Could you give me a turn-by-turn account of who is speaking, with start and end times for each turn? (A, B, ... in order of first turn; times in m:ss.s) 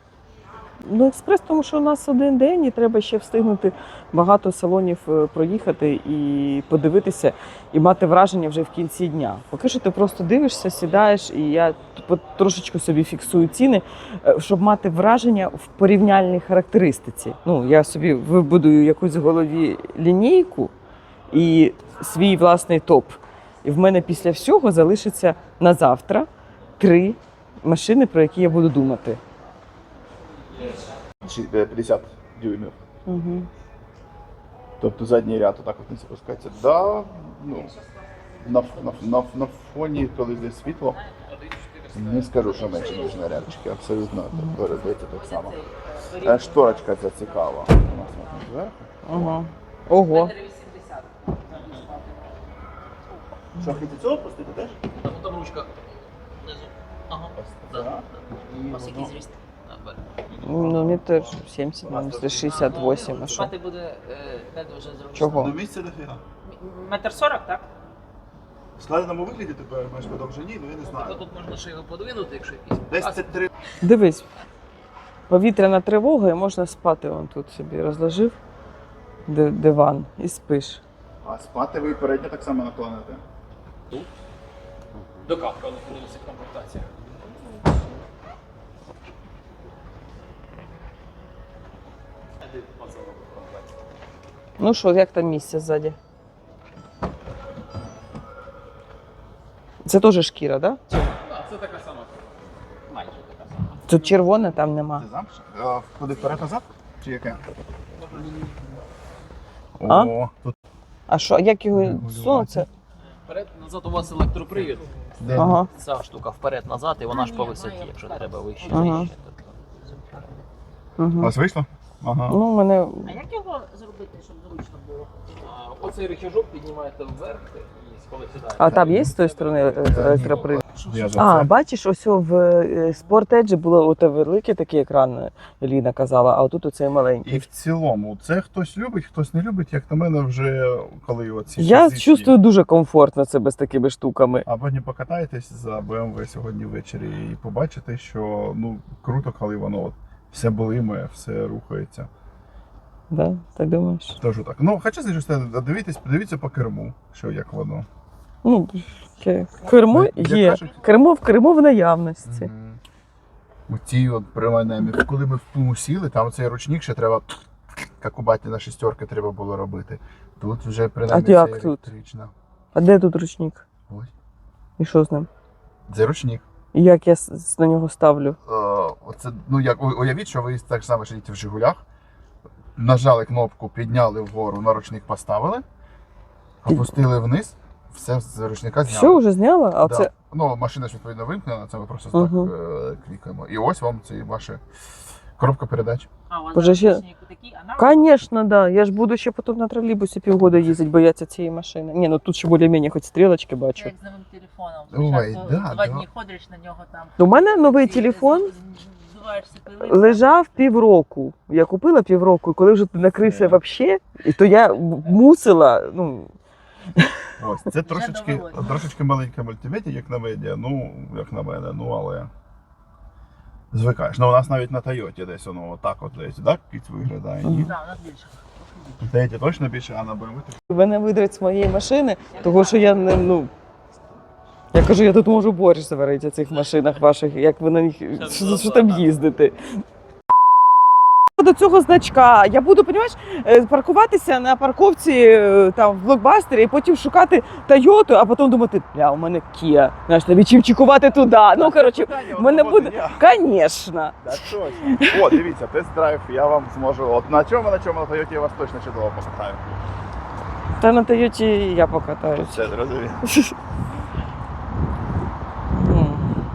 0:00.8-0:20.7 A
0:21.3-0:26.3 A
0:26.8-0:29.2 A
0:31.2-0:32.8 B
0:33.1-0:33.5 A
0:34.8-0:37.7 B
0:38.4-0:41.0 B
0:40.9-0:41.2 C
0:41.3-0:43.3 D
0:41.9-0:45.6 B
0:42.6-0:43.1 C
0:45.1-0:48.5 C
0:46.2-0:49.4 B
0:49.0-0:50.3 A
0:50.1-0:52.4 C
0:53.6-0:54.8 B
0:55.0-0:55.7 D
0:56.4-0:58.2 D
0:57.4-0:59.1 B
0:58.6-0:59.4 C
0:59.6-1:00.0 D
1:00.3-1:01.2 B
1:00.4-1:03.5 A
1:01.8-1:03.5 B
1:02.4-1:05.5 C
1:05.1-1:05.5 A
1:05.3-1:06.2 B
1:06.4-1:07.7 C
1:08.8-1:11.2 B
1:10.8-1:13.4 D
1:12.9-1:13.5 B
1:13.8-1:14.3 A
1:15.3-1:18.4 A
1:19.3-1:20.8 A
1:21.2-1:23.2 B
1:25.2-1:27.7 D
1:32.4-1:33.7 D
1:34.6-1:36.0 A
1:39.8-1:40.8 A
1:41.1-1:43.9 D
1:43.9-1:45.0 A
1:45.0-1:47.4 B
1:48.0-1:48.6 D
1:49.8-1:50.6 B
1:51.1-1:52.7 A
1:51.7-1:52.7 B
1:53.3-1:59.6 D
1:55.2-1:55.6 B
1:55.4-1:55.7 A
1:57.1-1:59.1 C
1:58.7-1:59.1 A
1:59.8-2:00.4 C
2:01.0-2:01.3 A
2:01.2-2:02.4 B
2:02.3-2:03.2 A
2:03.0-2:05.1 C
2:05.4-2:11.1 D
2:08.6-2:10.6 A
2:08.6-2:09.1 B
2:09.8-2:11.5 B
2:11.2-2:17.4 A
2:17.2-2:22.4 B
2:21.6-2:24.5 A
2:24.5-2:32.1 B
2:33.1-2:34.2 A
2:34.2-2:37.9 B
2:38.4-2:42.5 A
2:39.9-2:40.8 B
2:42.2-2:42.8 B
2:43.7-2:47.4 B
2:48.0-2:52.3 B
2:51.1-2:51.9 A
2:52.8-2:53.6 A
2:54.8-2:55.3 A
2:55.9-2:56.4 B
2:56.7-2:58.4 A
2:58.4-3:01.8 B
3:02.8-3:05.6 B
3:06.6-3:09.2 B
3:08.9-3:10.1 A
3:09.8-3:14.6 B
3:12.1-3:12.5 A
3:15.4-3:16.1 B
3:16.3-3:18.1 C
3:16.5-3:17.0 A
3:17.8-3:23.9 A
3:23.8-3:30.7 C
3:24.9-3:26.1 B
3:27.2-3:28.5 A
3:29.9-3:36.3 A
3:33.2-3:33.6 B
3:37.4-3:42.3 B
3:37.9-3:38.8 C
3:43.7-3:47.8 B
3:47.4-3:47.7 A
3:47.5-3:49.0 C
3:49.0-3:50.6 B
3:50.7-3:53.5 A
3:52.3-3:53.2 C
3:54.7-3:59.8 A
3:58.2-3:59.2 D
4:01.4-4:15.3 A
4:11.5-4:13.2 B
4:14.2-4:19.8 B
4:20.8-4:22.7 A
4:22.4-4:23.3 B
4:23.2-4:23.5 A
4:25.7-4:26.3 A